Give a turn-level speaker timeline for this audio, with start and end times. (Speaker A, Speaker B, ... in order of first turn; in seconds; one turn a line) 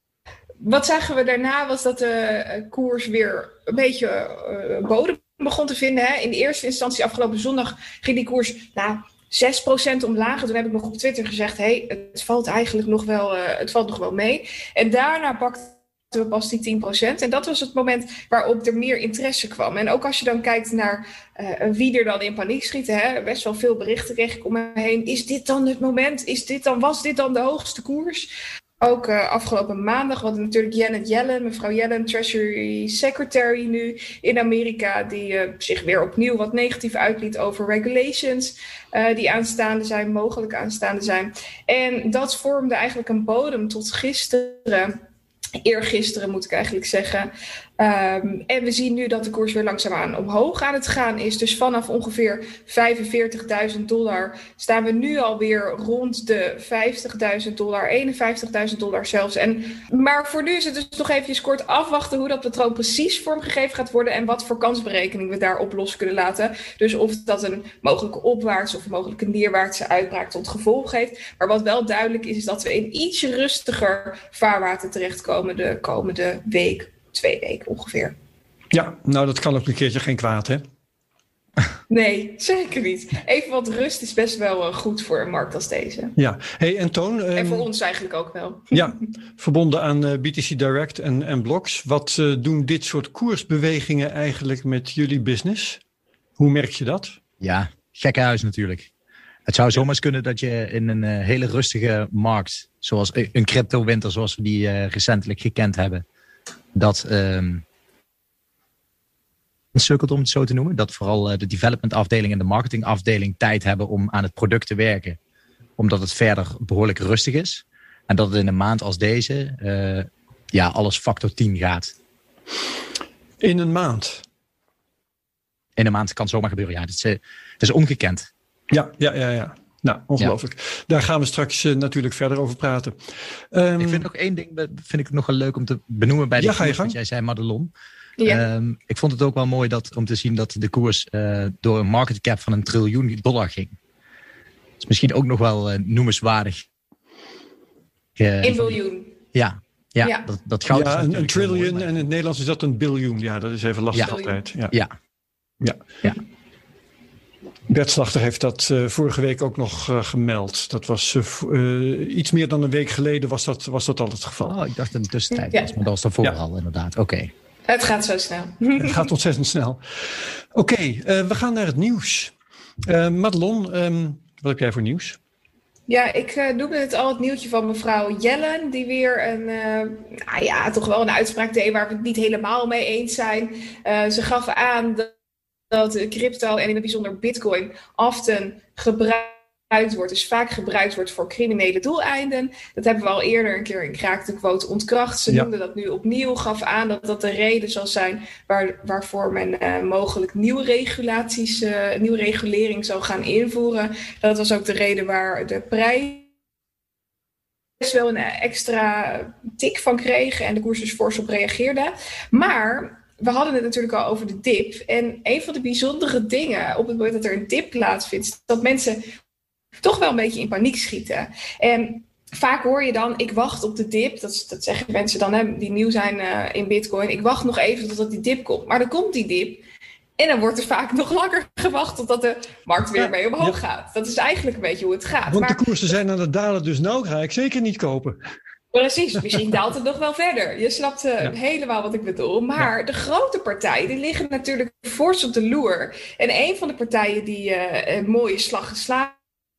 Speaker A: 0.6-45.0
Speaker A: 45.6-78.1
Speaker B: 78.7-80.6
Speaker A: 81.9-86.1
Speaker B: 86.2-87.7
Speaker A: 87.3-88.8
Speaker B: 88.7-95.8
Speaker B: 96.4-97.2
Speaker C: 97.4-98.9
Speaker C: 99.5-106.0
Speaker C: 106.7-107.6
Speaker C: 109.7-115.2
Speaker C: 115.8-121.9
Speaker B: 123.4-124.2
Speaker C: 125.8-128.3
Speaker B: 128.7-133.0
Speaker B: 133.5-134.0
Speaker C: 133.8-137.7
Speaker B: 136.4-137.0
Speaker A: 138.2-138.4
Speaker C: 138.2-143.7
Speaker C: 144.8-146.6
Speaker C: 148.2-148.8
Speaker A: 148.4-149.1
Speaker C: 149.3-152.0
Speaker B: 150.7-154.7
Speaker A: 154.0-154.4
Speaker B: 157.7-164.6
Speaker C: 164.4-167.3
Speaker A: 165.4-165.7
Speaker A: 167.7-169.1
Speaker B: 168.8-172.3
Speaker B: 172.8-175.2
Speaker A: 175.9-185.1
Speaker A: 185.7-206.3
Speaker A: 207.8-219.0
Speaker A: 219.8-229.6
Speaker A: 230.2-235.7
Speaker B: 232.9-233.6
Speaker B: 235.3-238.2
Speaker A: 238.7-249.1